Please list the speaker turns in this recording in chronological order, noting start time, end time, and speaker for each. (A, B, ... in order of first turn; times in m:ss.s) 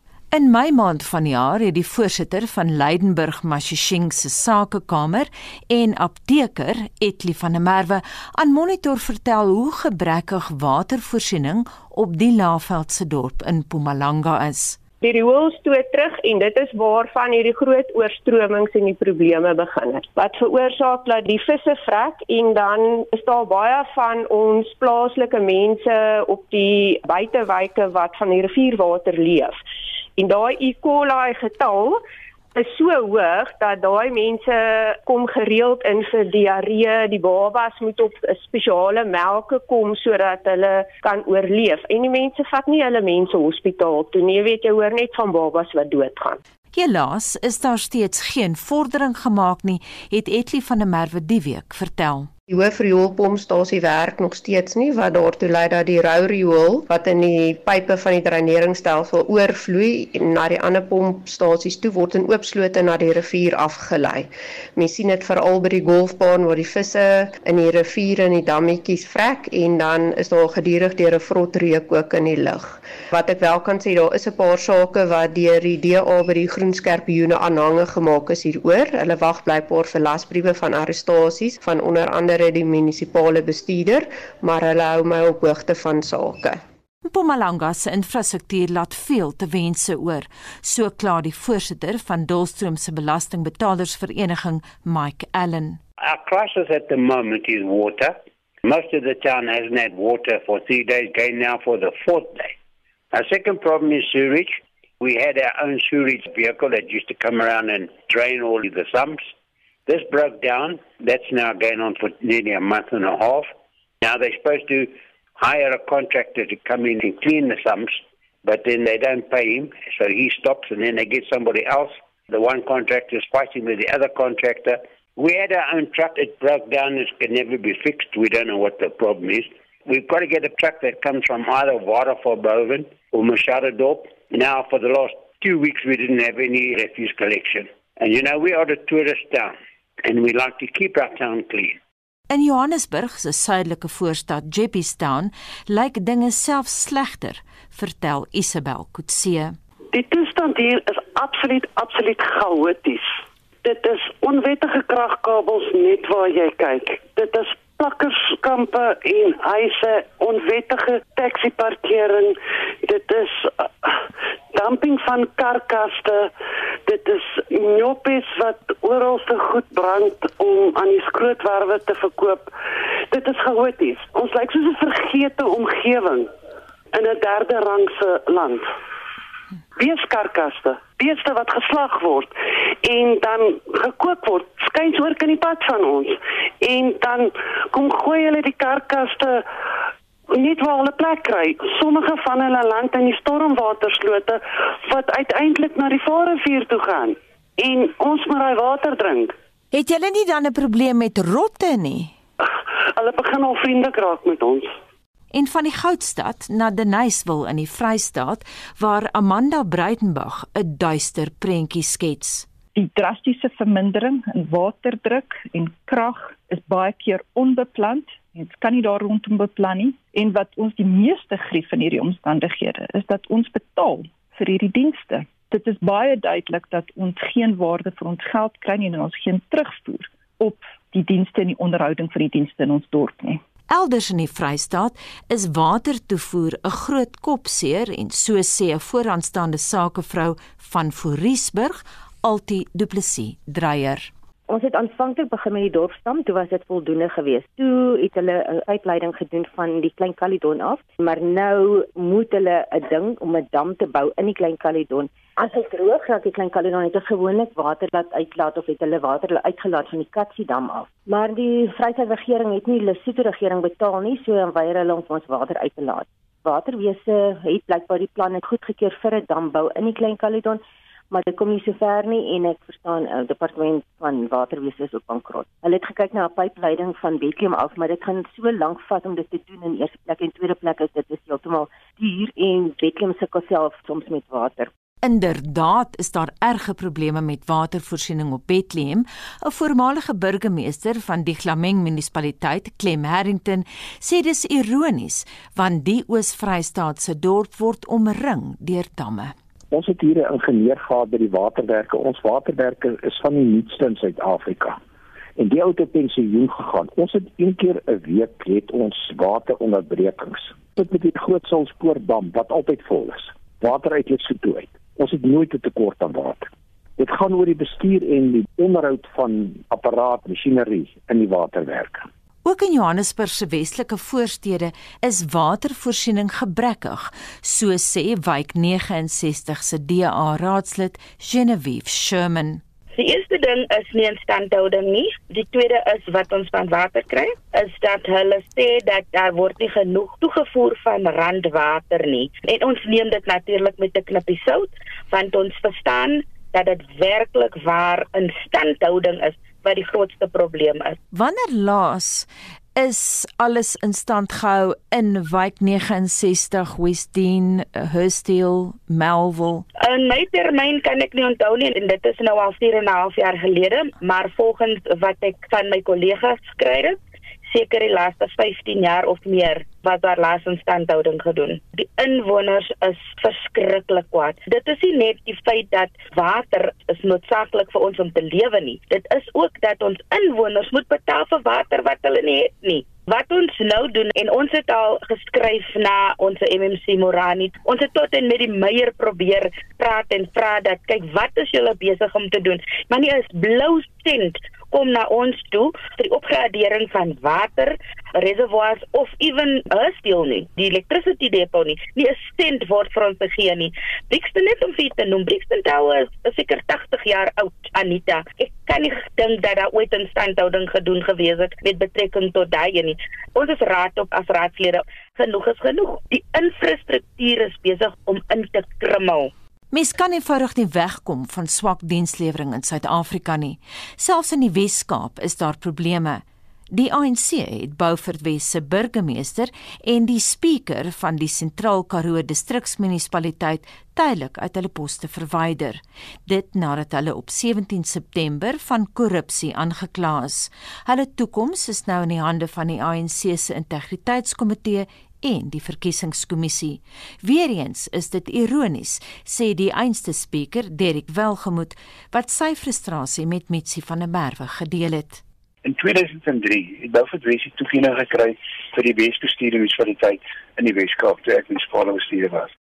0:00.3-0:14.8 A
0:15.0-0:29.6 B
0:30.2-0:32.0 B
0:32.5-0:46.4 B
0:46.7-0:52.3 A
0:52.5-1:26.6 C
1:27.1-1:35.8 A
1:36.0-1:42.5 D
1:43.1-1:49.3 D
1:49.8-2:21.8 D
2:22.3-2:29.6 A
2:29.9-2:43.9 E
2:44.5-2:46.3 E
2:46.8-2:52.5 E
2:53.1-2:56.3 E
2:56.9-2:58.7 E
2:59.8-3:02.3 E
3:02.8-3:09.4 E
3:10.3-3:19.3 E
3:19.7-3:22.2 A
3:23.0-3:24.7 E
3:25.3-3:32.5 A
3:32.8-3:53.4 F
3:53.7-4:04.1 A
4:04.5-4:44.7 G
4:45.0-4:59.4 A
4:59.7-5:04.8 H
5:05.4-5:22.1 H
5:22.4-5:32.6 A
5:33.0-5:51.0 I
5:51.1-5:59.6 A
5:59.8-6:59.3 I
6:59.7-7:35.2 A
7:35.6-7:42.5 J